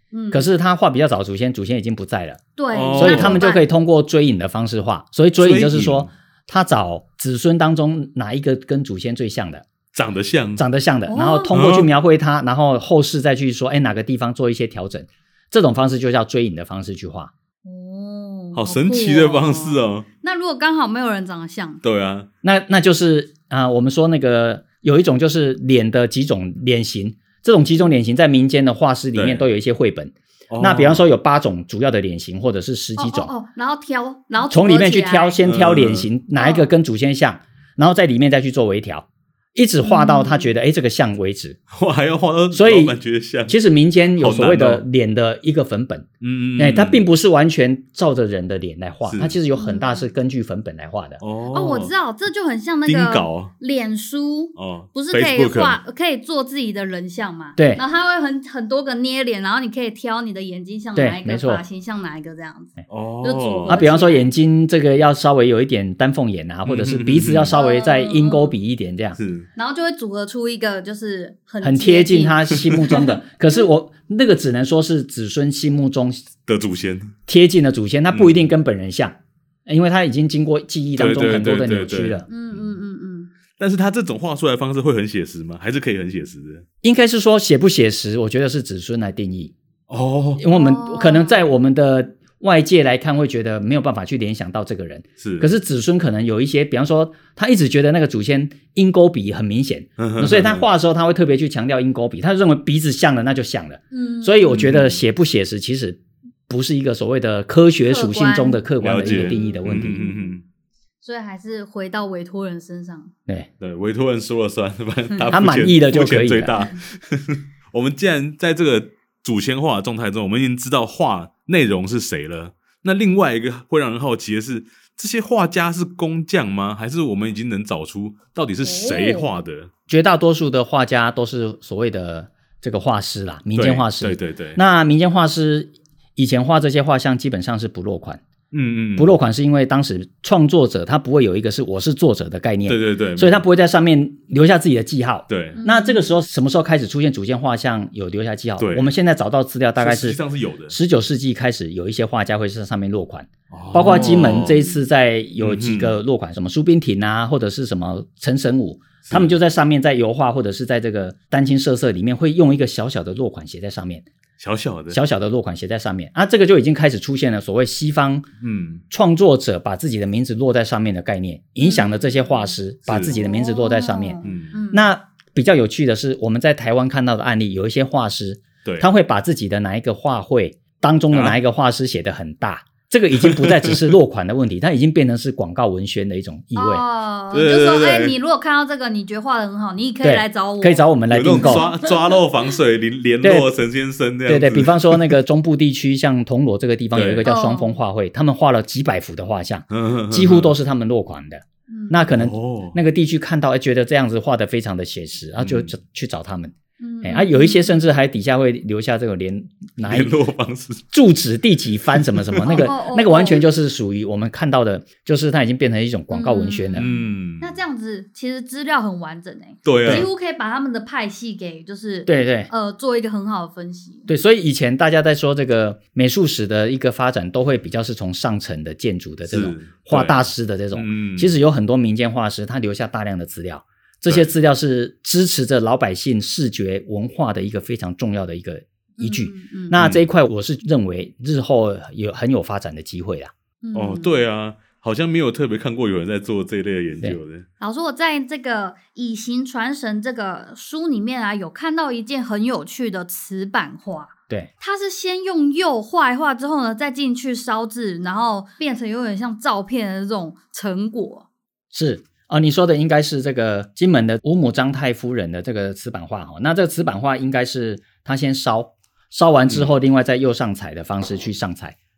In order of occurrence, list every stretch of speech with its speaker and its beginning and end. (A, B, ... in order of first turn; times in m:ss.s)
0:00.1-0:00.5 A
0:00.3-0:02.4 B
0:02.6-0:03.7 A
0:02.7-0:03.5 C
0:03.0-0:09.7 B
0:05.4-0:06.1 C
0:09.9-0:10.6 C
0:10.6-0:17.3 B
0:11.1-0:11.5 A
0:11.5-0:11.9 C
0:17.6-0:21.8 A
0:18.5-0:20.1 C
0:21.8-0:22.3 C
0:22.4-0:33.3 B
0:29.2-0:29.5 C
0:30.5-0:31.1 C
0:33.0-0:35.4 A
0:34.5-0:41.6 B
0:35.4-0:36.1 C
0:36.4-0:36.7 A
0:39.8-0:40.5 A
0:41.7-0:43.6 C
0:42.5-0:43.0 B
0:43.5-0:51.2 B
0:44.2-0:44.8 C
0:46.2-0:47.0 C
0:49.1-0:49.4 C
0:49.5-0:50.1 A
0:51.2-0:51.9 C
0:51.5-1:04.3 A
0:52.9-0:53.5 C
0:54.6-0:55.8 C
0:57.6-0:57.8 B
1:01.0-1:01.6 B
1:02.9-1:03.9 C
1:03.7-1:09.2 B
1:06.7-1:07.6 C
1:07.5-1:08.6 A
1:09.2-1:09.5 C
1:09.6-1:13.6 A
1:11.6-1:16.3 B
1:16.5-1:17.2 C
1:17.3-1:22.3 B
1:18.1-1:18.5 C
1:21.0-1:22.3 C
1:22.3-1:23.3 A
1:23.6-1:26.6 C
1:26.8-1:29.5 B
1:29.9-1:30.4 C
1:30.4-1:50.1 B
1:30.5-1:31.4 A
1:35.2-1:35.5 C
1:40.0-1:40.6 C
1:43.9-1:44.6 A
1:44.5-1:45.0 C
1:47.8-1:50.3 A
1:48.8-1:50.4 C
1:51.0-1:53.1 A
1:53.6-2:09.7 C
1:55.3-1:56.6 B
2:08.6-2:09.3 A
2:09.9-2:18.2 B
2:13.6-2:14.6 C
2:18.5-2:19.1 C
2:19.0-2:30.2 B
2:22.7-2:23.4 C
2:25.3-2:25.6 C
2:25.6-2:26.1 A
2:28.6-2:28.9 C
2:29.8-2:30.8 C
2:30.7-2:44.1 B
2:33.5-2:34.6 C
2:33.8-2:34.8 A
2:35.4-2:36.0 C
2:39.0-2:39.3 C
2:44.4-2:45.0 C
2:44.9-2:48.3 B
2:48.4-2:48.8 C
2:48.9-2:54.2 B
2:51.6-2:52.5 A
2:52.9-2:53.2 C
2:53.1-2:54.9 A
2:54.2-2:54.5 C
2:54.7-3:06.8 B
3:01.1-3:01.4 C
3:03.2-3:03.9 C
3:06.6-3:12.2 A
3:07.3-3:08.2 C
3:10.0-3:11.7 B
3:11.1-3:15.2 C
3:13.2-3:13.5 B
3:14.3-3:30.1 B
3:16.9-3:17.3 C
3:17.2-3:17.8 A
3:19.7-3:20.6 C
3:21.7-3:22.0 A
3:22.1-3:22.8 C
3:25.4-3:25.7 C
3:26.8-3:27.8 A
3:29.8-3:30.8 C
3:30.9-3:36.9 B
3:31.9-3:32.6 C
3:32.4-3:33.4 A
3:36.1-3:44.1 A
3:36.8-3:37.5 C
3:39.6-3:40.1 C
3:39.8-3:40.1 B
3:42.1-3:42.5 B
3:44.1-4:03.3 B
3:49.3-3:50.2 C
3:50.7-3:51.3 C
3:59.0-3:59.8 A
3:59.8-4:00.0 C
4:03.6-4:04.2 A
4:03.7-4:07.5 C
4:07.6-4:21.3 A
4:21.7-4:31.8 B
4:29.5-4:29.7 C